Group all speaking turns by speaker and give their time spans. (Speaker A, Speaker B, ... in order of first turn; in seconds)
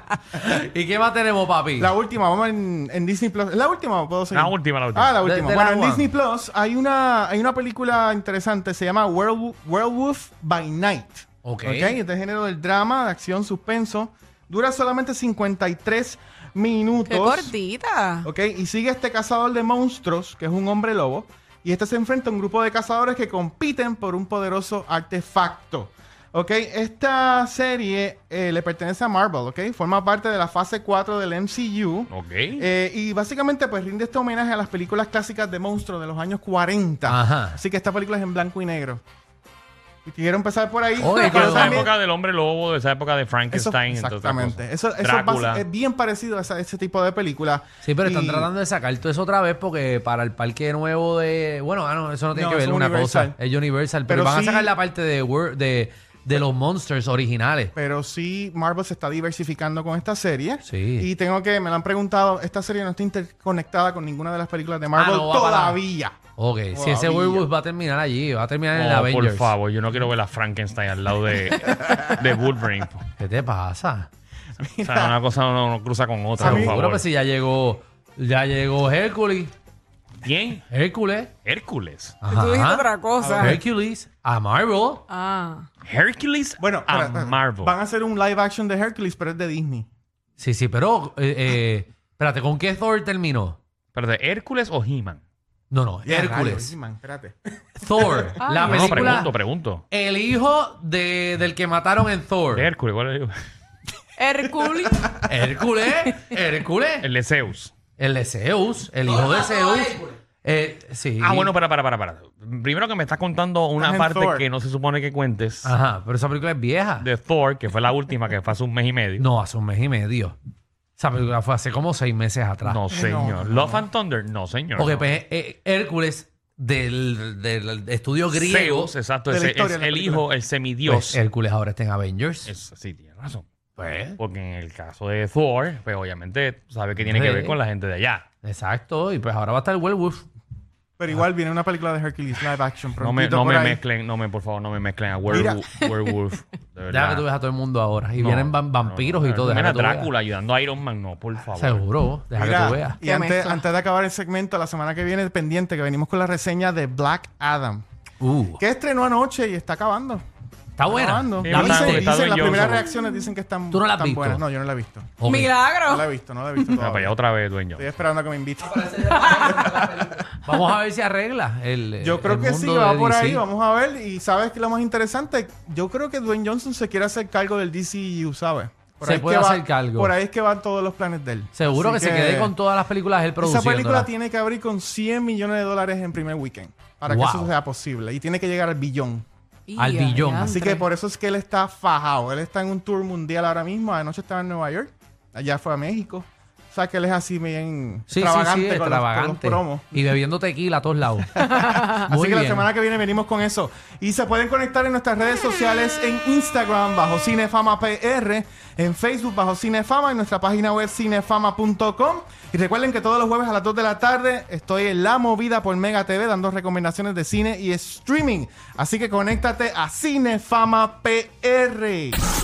Speaker A: 0.3-1.9, 5.2-6.1, 11.4-12.0, 37.1-37.6, 41.0-41.8, 47.8-57.7, 60.6-61.1, 64.9-65.8, 66.4-69.5, 73.2-74.1, 76.4-79.5, 80.7-81.3, 82.2-85.0, 90.4-93.6, 95.7-96.7, 97.8-99.3, 99.9-102.7, 105.2-107.1, 108.0-111.5, 115.6-117.1, 119.2-120.3, 121.0-122.8, 124.7-128.9, 130.8-132.5, 133.8-134.2, 137.0-137.6, 138.4-140.2, 146.9-150.1, 151.5-153.0, 158.2-158.6, 160.8-162.8, 163.7-164.4, 165.2-165.5, 170.4-173.4, 179.0-180.1, 181.5-184.1, 187.1-187.5, 189.8-190.5, 198.1-202.7
Speaker B: 1.8-17.5, 18.2-39.0, 40.0-41.9, 43.5-48.5, 52.3-53.4, 54.1-54.7, 57.8-66.2, 66.7-67.5, 74.6-75.2, 76.4-76.8, 83.2-83.6, 86.6-89.9, 96.0-97.3, 97.9-98.3, 113.8-114.4, 122.9-123.8, 129.3-130.2, 141.0-143.8, 145.3-145.6, 152.3-157.8, 158.6-160.2, 160.8-165.2, 165.8-167.2, 167.7-170.3, 172.0-182.5, 183.4-189.2, 190.4-200.0, 201.3-222.2
Speaker C: 4.3-5.2, 32.1-32.6, 41.1-45.6, 68.7-73.0, 74.8-77.0, 80.2-80.7, 81.4-82.2, 85.9-87.7, 93.9-95.2, 98.6-99.8, 102.5-103.3, 107.0-107.7, 111.2-115.7, 117.0-119.2, 122.6-125.1, 128.3-131.2, 132.4-133.4, 134.2-138.2, 143.0-147.2, 148.2-151.8, 161.4-162.9, 166.8-167.9
Speaker D: 17.1-18.3, 82.3-83.6, 85.1-85.7, 98.4-99.1, 104.2-105.2, 153.0-153.7, 165.2-166.7, 169.2-169.6, 189.7-190.9